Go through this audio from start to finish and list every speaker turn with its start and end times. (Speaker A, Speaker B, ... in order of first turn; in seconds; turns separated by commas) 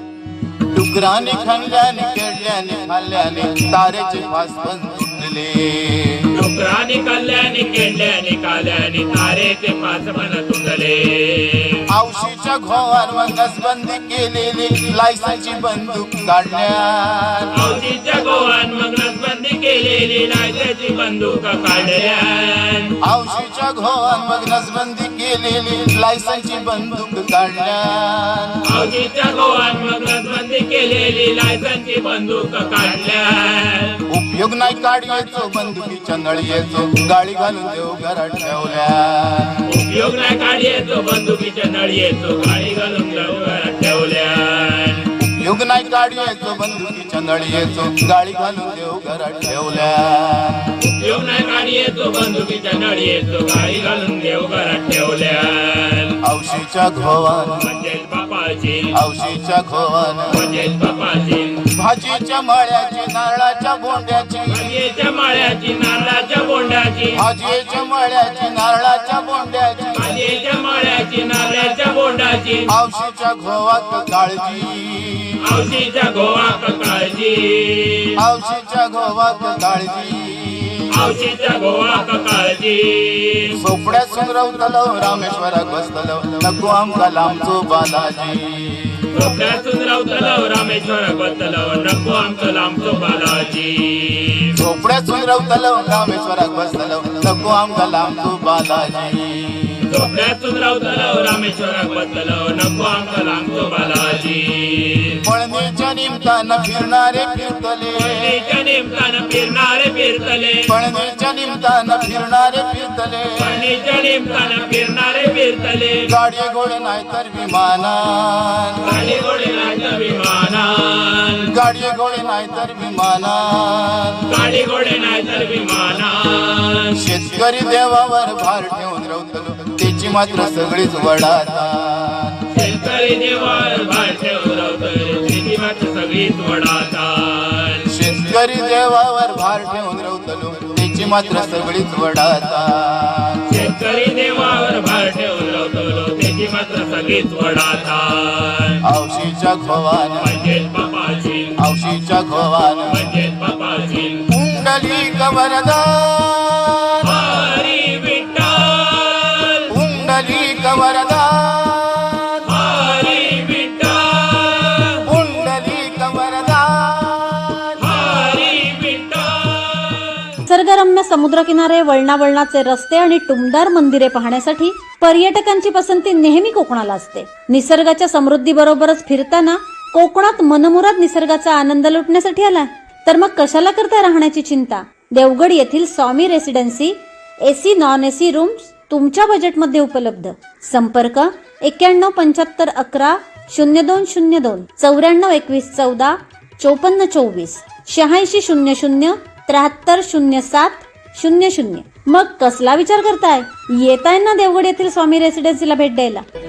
Speaker A: 0.7-6.3, Speaker B: 6.3-11.8, Speaker A: 11.9-17.5, Speaker B: 17.6-22.9, Speaker A: 23.0-28.6, Speaker B: 28.7-34.0, Speaker A: 34.1-39.6, Speaker B: 39.7-45.1, Speaker A: 45.2-50.7, Speaker B: 50.8-56.2, Speaker A: 56.2-57.7, Speaker B: 57.6-59.0, Speaker A: 59.0-60.4, Speaker B: 60.3-61.7, Speaker A: 61.7-64.7, Speaker B: 64.5-67.2, Speaker A: 67.1-70.2, Speaker B: 70.0-72.7, Speaker A: 72.7-75.4, Speaker B: 75.5-78.2, Speaker A: 78.2-80.9, Speaker B: 80.9-83.5, Speaker A: 83.5-89.1, Speaker B: 89.1-94.6, Speaker A: 94.5-99.8, Speaker B: 99.9-105.2, Speaker A: 105.2-108.4, Speaker B: 108.0-110.7, Speaker A: 110.7-113.7, Speaker B: 113.4-116.1, Speaker A: 116.1-118.8, Speaker B: 118.8-121.5, Speaker A: 121.5-124.2, Speaker B: 124.3-127.0, Speaker A: 127.0-132.4, Speaker B: 132.5-137.9, Speaker A: 137.9-143.4, Speaker B: 143.5-148.8, Speaker A: 148.8-150.4, Speaker B: 150.2-151.6, Speaker A: 151.6-153.1, Speaker B: 152.9-154.3, Speaker A: 154.3-157.4, Speaker B: 157.0-159.7, Speaker A: 159.7-162.4, Speaker B: 162.5-165.0, Speaker A: 165.1-168.0, Speaker B: 167.8-170.4, Speaker C: 170.5-206.2